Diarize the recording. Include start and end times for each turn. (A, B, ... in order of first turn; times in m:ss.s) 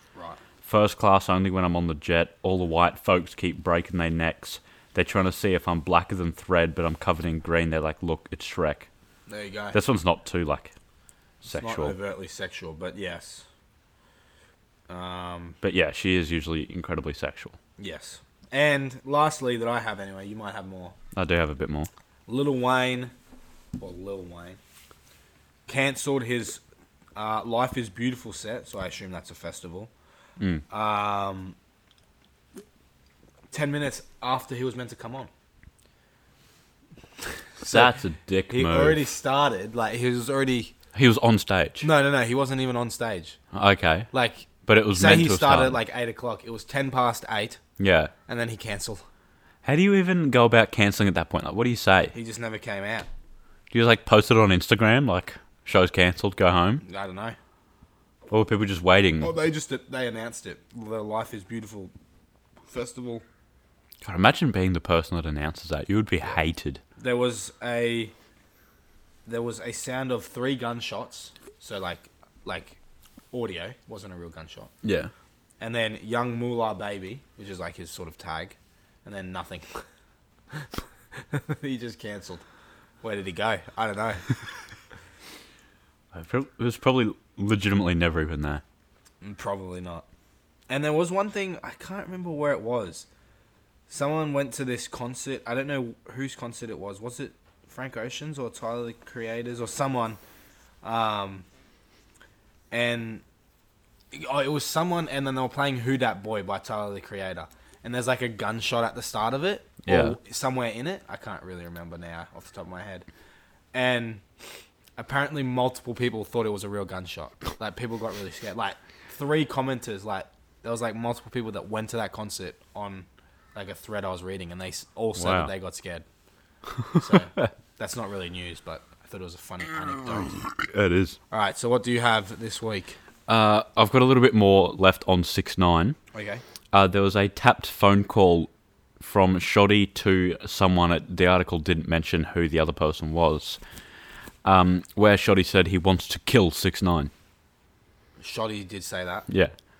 0:00.2-0:00.4 A
0:00.6-0:08.9 B
0:09.3-0:09.8 A
0:09.7-0:10.7 B
0:11.4-0:12.0 B
0:11.5-0:13.4 A
0:14.9-0:15.6 A
0:15.6-0:17.6 B
0:17.8-0:21.0 A
0:21.1-0:21.9 B
0:22.3-0:23.1 A
0:23.8-0:24.6 A
0:25.7-0:26.6 A
0:27.2-0:29.9 A
0:30.4-0:30.6 B
0:30.7-0:31.6 A
0:33.5-0:35.3 A
0:37.6-0:40.7 A
0:37.7-0:39.0 B
0:40.9-0:41.9 B
0:41.8-0:43.4 A
0:43.5-0:44.1 B
0:44.1-0:47.6 A
0:44.6-0:45.8 B
0:47.8-0:48.1 B
0:48.3-0:49.0 A
0:49.6-0:52.1 B
0:52.1-0:53.1 A
0:53.7-0:56.8 B
0:56.8-0:57.4 A
0:58.3-0:59.3 B
0:59.2-1:01.9 A
1:02.7-1:03.2 A
1:04.0-1:06.8 B
1:07.0-1:08.1 A
1:09.3-1:12.8 A
1:13.3-1:14.7 A
1:14.8-1:15.1 B
1:15.6-1:19.8 A
1:21.1-1:22.4 A
1:23.0-1:24.3 A
1:26.1-1:28.6 B
1:29.2-1:30.0 A
1:30.7-1:33.1 A
1:33.9-1:40.2 A
1:40.8-1:41.5 A
1:42.7-1:43.2 A
1:44.1-1:53.1 A
1:49.8-1:50.2 B
1:53.7-1:54.2 A
1:55.0-2:06.0 A
2:05.2-2:05.5 B
2:06.9-2:07.5 B
2:06.9-2:10.4 A
2:10.2-2:11.2 B
2:11.3-2:13.0 A
2:13.3-2:16.0 B
2:16.1-2:16.4 A
2:16.7-2:23.6 B
2:24.4-2:27.1 B
2:28.2-2:29.3 A